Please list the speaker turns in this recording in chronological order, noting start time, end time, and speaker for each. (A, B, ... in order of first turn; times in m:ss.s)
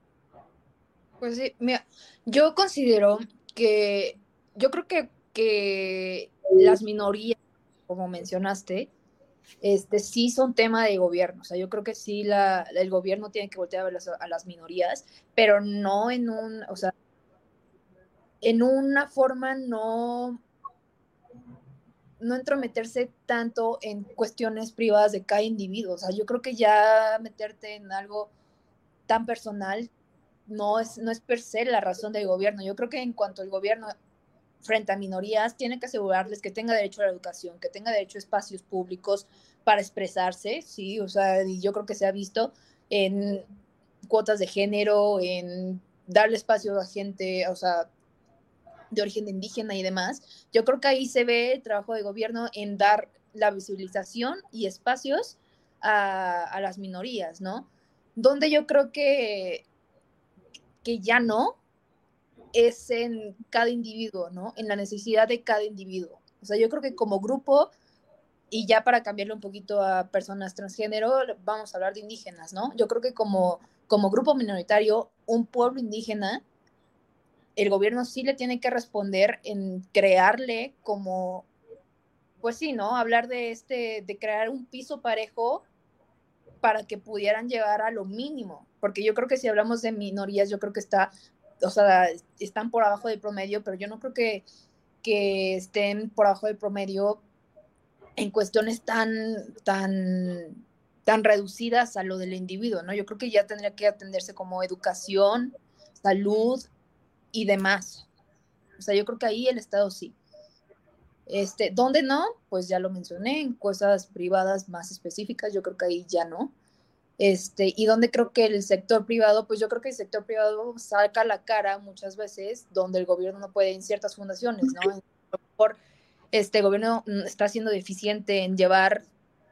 0:01.2-0:08.9 A
0:09.6-0:16.9 A
0:18.4-0:20.4 A
0:22.2-0:28.3 A
0:29.1-0:29.9 A
0:30.5-0:33.9 A
0:34.6-0:43.4 A
0:44.1-0:47.9 A
0:48.9-0:59.6 A
1:00.8-1:01.6 A
1:02.5-1:07.7 A
1:08.5-1:16.4 A
1:17.6-1:21.5 A
1:22.4-1:25.7 A
1:26.6-1:34.4 A
1:35.0-1:37.2 A
1:38.2-1:46.7 A
1:47.3-1:48.1 A
1:48.8-1:50.2 A
1:51.3-1:56.5 A
1:57.2-2:05.0 A
2:06.3-2:09.0 A